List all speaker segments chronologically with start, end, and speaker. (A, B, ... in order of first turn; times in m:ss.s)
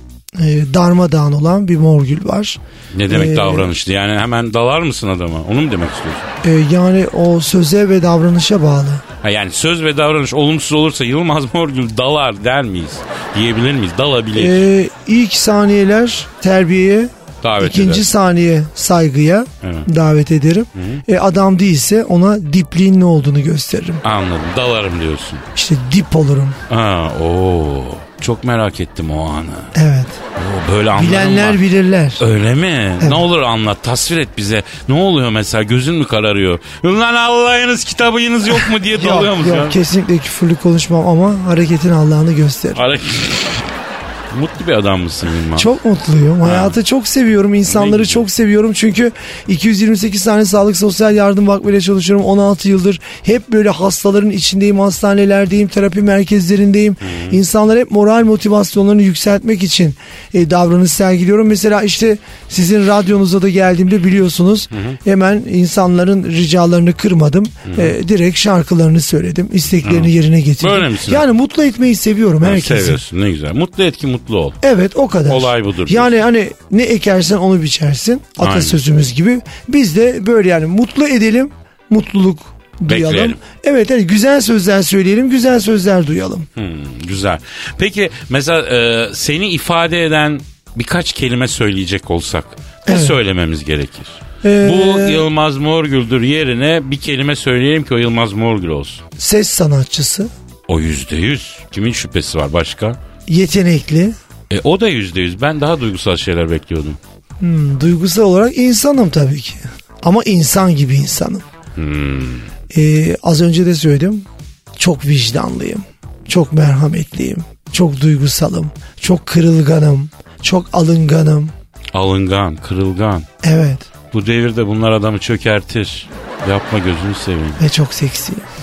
0:00.4-0:03.7 A
0:02.9-0:06.3 B
0:06.4-0:09.0 A
0:09.2-0:14.6 B
0:14.4-0:24.0 A
0:17.4-0:18.0 B
0:19.6-0:19.9 B
0:20.8-0:21.0 B
0:24.0-0:25.5 B
0:25.6-0:26.6 A
0:26.7-0:29.7 B
0:29.8-0:30.2 A
0:30.4-0:31.6 B
0:30.9-0:32.2 A
0:32.2-0:39.8 B
0:38.6-0:42.8 A
0:42.8-0:43.7 B
0:44.3-0:45.7 B
0:45.6-1:13.0 A
0:46.4-0:46.8 B
0:47.7-0:48.2 B
0:57.0-0:57.4 B
1:04.7-1:05.0 B
1:07.7-1:07.9 B
1:09.8-1:11.3 B
1:12.4-1:14.6 B
1:14.6-1:26.5 A
1:15.3-1:16.2 B
1:18.4-1:18.8 B
1:22.9-1:23.4 B
1:26.6-1:39.0 B
1:32.9-1:33.2 A
1:34.4-1:35.2 A
1:39.2-1:40.3 A
1:40.7-1:43.0 B
1:43.3-1:44.2 A
1:44.5-1:47.0 B
1:47.4-1:51.5 A
1:51.8-1:52.5 B
1:52.7-1:54.3 A
1:54.8-2:01.5 A
2:01.9-2:03.3 B
2:03.4-2:03.9 A
2:04.1-2:07.6 B
2:07.6-2:08.5 A